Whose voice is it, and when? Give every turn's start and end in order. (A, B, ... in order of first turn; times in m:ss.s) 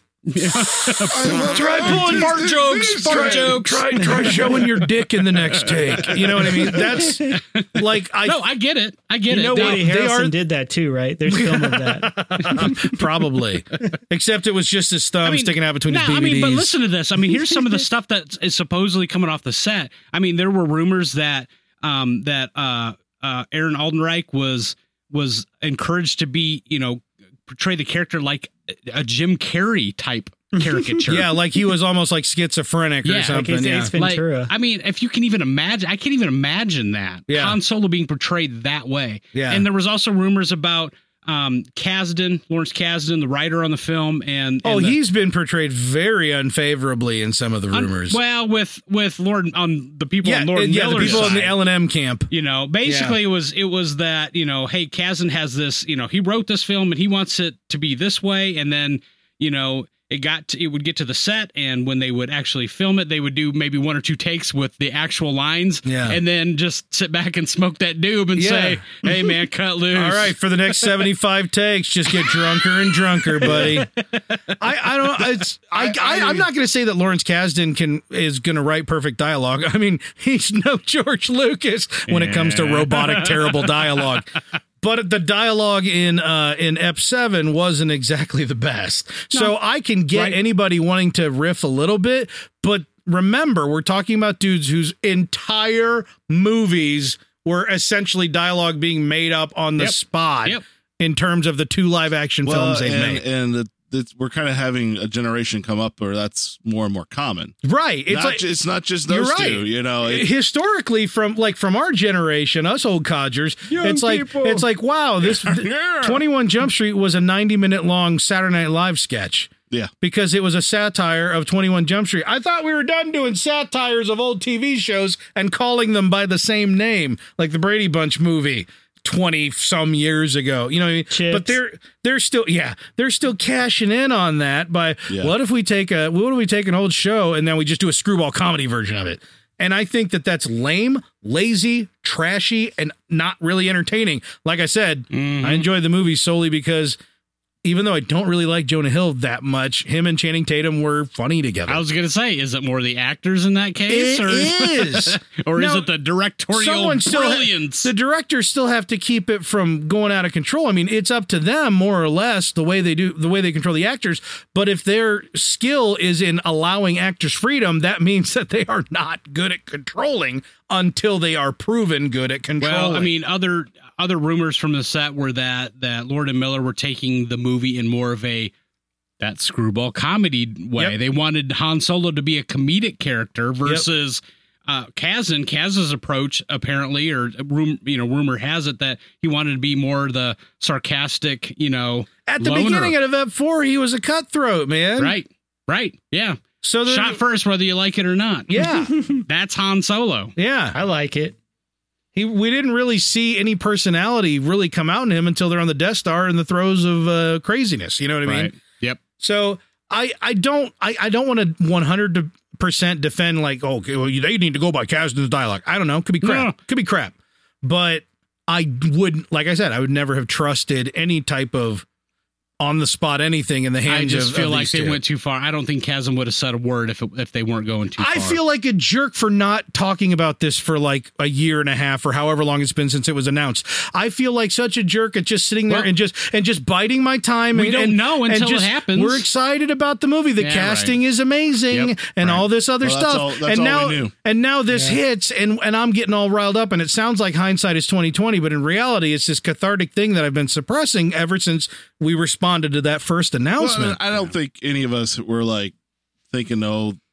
0:00.3-0:04.6 A
0:00.4-0:08.4 B
0:01.1-0:03.7 C
0:04.0-0:04.5 D
0:05.3-0:09.9 A
0:09.3-0:13.2 D
0:09.5-0:10.3 B
0:11.3-0:16.7 B
0:15.2-0:31.4 A
0:30.6-0:31.0 D
0:31.1-0:33.9 B
0:33.0-0:45.0 A
0:33.3-0:34.5 D
0:37.3-0:37.6 B
0:39.4-0:39.6 B
0:44.6-0:48.2 B
0:47.7-0:51.6 A
0:50.2-0:52.3 B
0:51.0-0:51.5 C
0:52.3-1:11.1 A
0:52.8-0:53.2 B
1:05.8-1:06.2 B
1:08.4-1:09.3 B
1:09.9-1:13.9 B
1:12.1-1:14.0 A
1:13.5-1:13.8 C
1:14.6-1:43.2 B
1:15.7-1:16.5 C
1:22.1-1:24.0 A
1:30.1-1:30.4 A
1:39.8-1:40.6 A
1:42.4-1:47.6 C
1:47.6-1:48.5 B
1:48.1-1:50.3 C
1:49.1-2:27.0 B
1:53.7-1:54.6 D
1:55.2-1:56.2 C
2:11.1-2:11.6 D
2:15.1-2:15.3 C
2:25.1-2:25.7 A
2:27.6-2:31.8 B
2:31.7-2:37.9 A
2:33.9-2:35.9 B
2:36.5-2:53.1 B
2:52.6-2:58.5 A
2:59.2-3:13.0 A
3:12.3-3:15.2 B
3:15.0-3:18.6 A
3:16.6-3:17.2 B
3:18.5-3:18.9 B
3:19.3-3:20.3 A
3:20.4-3:20.8 B
3:20.7-3:21.4 D
3:22.2-3:28.5 B
3:28.3-3:29.0 A
3:29.2-3:41.8 B
3:36.2-3:36.6 A
3:42.6-3:45.0 B
3:43.9-3:48.4 A
3:48.0-4:14.0 B
3:57.5-3:59.3 A
4:00.4-4:01.0 A
4:01.7-4:02.4 A
4:02.8-4:04.1 C
4:04.7-4:05.0 D
4:13.6-4:15.7 C
4:16.3-4:17.0 C